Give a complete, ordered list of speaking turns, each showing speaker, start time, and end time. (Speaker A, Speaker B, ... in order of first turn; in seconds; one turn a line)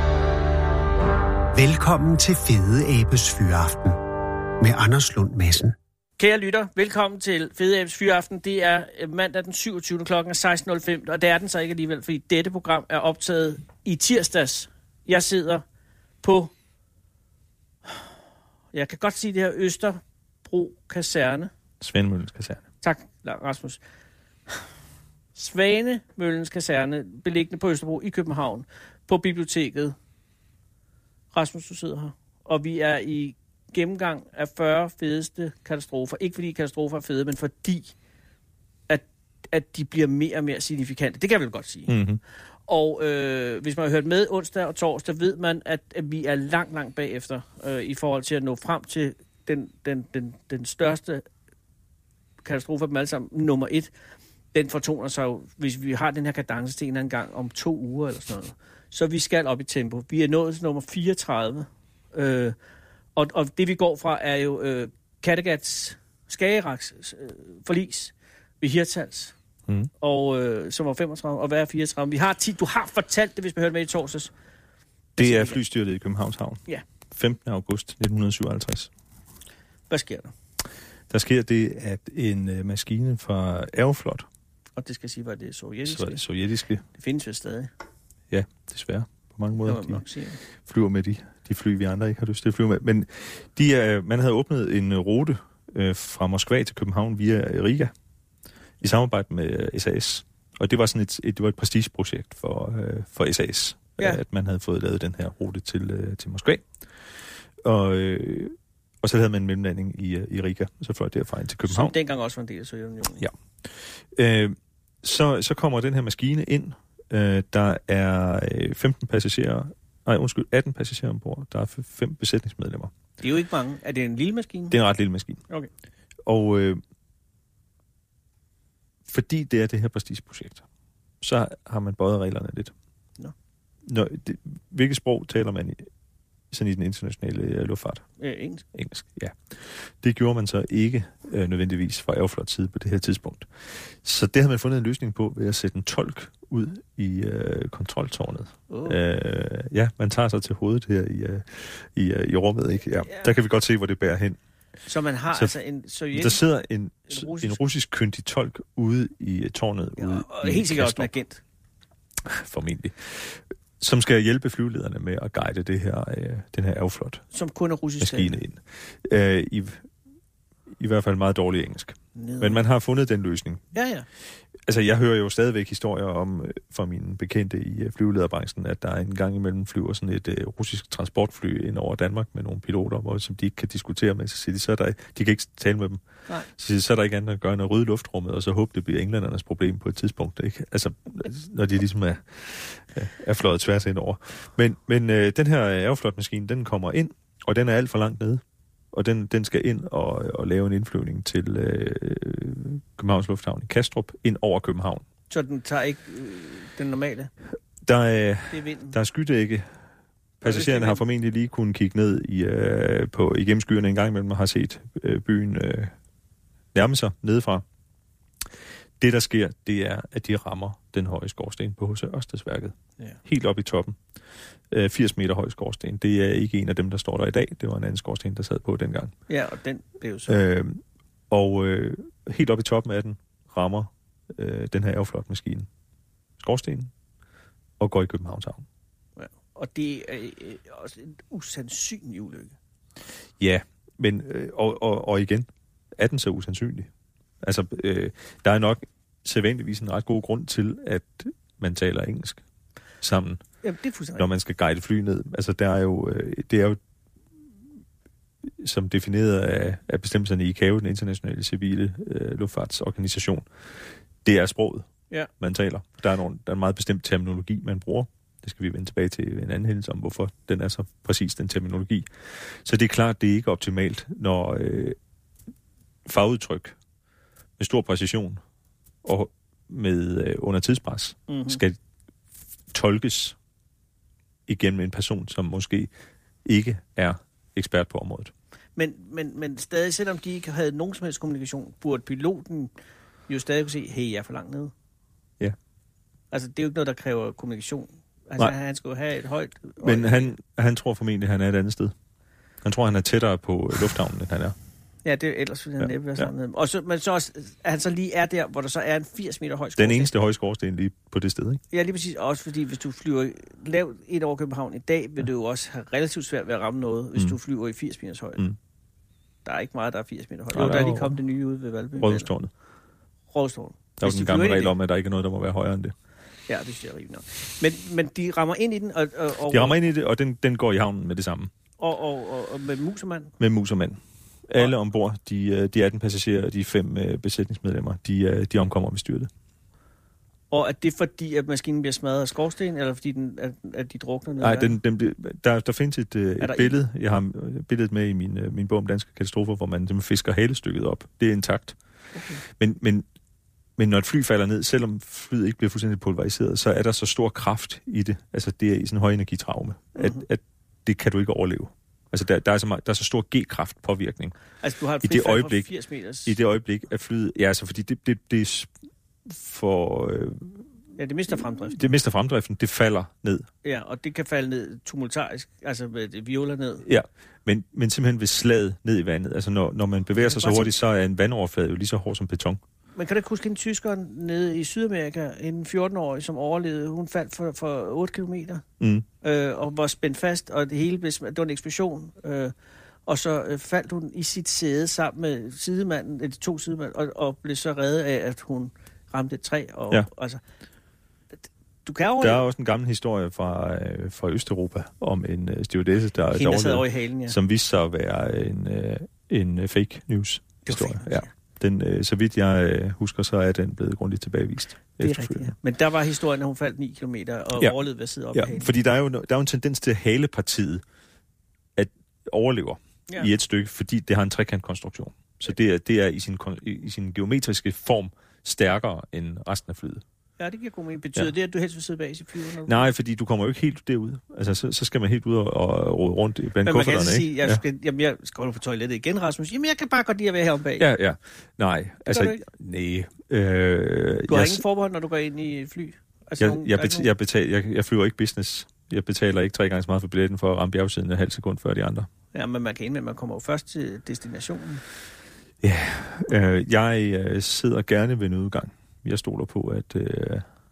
Speaker A: 1.5-4.0
Speaker A: 4.6-5.7
Speaker B: 6.2-15.6
Speaker B: 16.2-16.5
Speaker B: 18.7-21.5
Speaker C: 21.8-22.6
Speaker B: 22.8-23.8
Speaker B: 25.3-29.9
Speaker B: 31.3-37.9
Speaker B: 38.9-42.0
Speaker C: 41.9-42.2
Speaker B: 42.7-51.2
Speaker B: 52.4-53.9
Speaker B: 54.5-62.6
Speaker B: 63.1-69.3
Speaker B: 70.0-74.3
Speaker B: 75.2-75.6
Speaker C: 75.2-76.6
Speaker C: 77.1-78.9
Speaker B: 79.9-80.3
Speaker C: 81.1-84.3
Speaker B: 84.8-86.2
Speaker C: 85.9-86.8
Speaker B: 86.9-87.7
Speaker C: 88.3-90.0
Speaker B: 89.6-90.4
Speaker C: 90.6-97.9
Speaker C: 98.8-106.6
Speaker C: 107.6-111.9
Speaker B: 111.7-113.3
Speaker C: 113.2-122.9
Speaker B: 123.2-124.8
Speaker C: 124.7-125.4
Speaker C: 126.2-126.8
Speaker C: 129.1-130.6
Speaker C: 131.2-132.7
Speaker C: 133.8-135.9
Speaker C: 136.5-138.0
Speaker B: 138.2-138.7
Speaker C: 138.7-154.4
Speaker B: 148.7-149.0
Speaker B: 152.9-153.3
Speaker B: 154.9-156.4
Speaker C: 156.1-161.1
Speaker B: 157.1-157.6
Speaker B: 160.0-161.4
Speaker C: 162.2-167.2
Speaker B: 167.3-168.3
Speaker C: 168.0-169.9
Speaker C: 170.8-173.6
Speaker B: 172.1-172.6
Speaker B: 173.7-174.1
Speaker C: 174.7-198.4
Speaker C: 198.9-205.0
Speaker B: 205.3-207.3
Speaker C: 207.8-209.7
Speaker B: 208.5-208.9
Speaker C: 210.4-215.9
Speaker B: 210.4-211.0
Speaker C: 216.7-217.6
Speaker C: 219.0-224.0
Speaker C: 224.7-229.1
Speaker B: 229.3-230.4
Speaker C: 230.3-235.7
Speaker C: 236.4-236.9
Speaker C: 237.8-238.6
Speaker B: 239.2-242.6
Speaker C: 243.4-246.9
Speaker C: 247.4-252.4
Speaker C: 253.0-253.4
Speaker B: 253.6-254.2
Speaker C: 254.2-256.8
Speaker C: 258.6-263.5
Speaker C: 264.2-264.9
Speaker C: 265.4-275.0
Speaker C: 276.1-276.8
Speaker C: 277.6-278.4
Speaker C: 279.0-281.8
Speaker B: 281.3-281.6
Speaker C: 282.7-283.4
Speaker C: 284.5-285.9
Speaker C: 286.4-288.3
Speaker B: 288.8-292.7
Speaker B: 293.3-294.7
Speaker B: 296.3-300.3
Speaker C: 299.8-301.9
Speaker C: 302.6-304.6
Speaker B: 305.0-310.1
Speaker C: 305.8-306.3
Speaker C: 309.8-311.6
Speaker B: 311.7-318.4
Speaker B: 319.4-322.3
Speaker C: 320.5-321.2
Speaker C: 322.0-322.5
Speaker B: 323.3-324.7
Speaker C: 324.0-325.9
Speaker B: 326.5-329.8
Speaker C: 329.5-331.5
Speaker B: 331.8-333.3
Speaker C: 333.4-339.3
Speaker B: 340.5-344.7
Speaker C: 344.4-351.8
Speaker B: 346.4-346.7
Speaker B: 352.1-352.4
Speaker C: 352.4-353.1
Speaker C: 353.8-364.3
Speaker B: 360.0-360.2
Speaker B: 364.6-366.3
Speaker C: 365.0-365.7
Speaker C: 366.2-368.7
Speaker C: 369.2-370.6
Speaker B: 371.0-371.9
Speaker C: 371.3-373.5
Speaker B: 373.6-376.8
Speaker C: 376.8-382.6
Speaker B: 380.2-380.7
Speaker B: 382.9-388.6
Speaker C: 388.8-389.1
Speaker B: 389.2-392.5
Speaker B: 393.1-400.4
Speaker B: 401.8-402.4
Speaker C: 402.2-415.5
Speaker B: 406.3-407.4
Speaker B: 410.6-411.3
Speaker B: 415.0-418.7
Speaker C: 418.3-420.8
Speaker C: 421.8-430.0
Speaker B: 430.4-432.9
Speaker C: 432.6-437.6
Speaker B: 436.6-440.9
Speaker C: 440.8-444.6
Speaker B: 442.0-442.4
Speaker B: 444.3-447.1
Speaker C: 446.4-452.1
Speaker B: 452.3-454.8
Speaker C: 455.6-460.4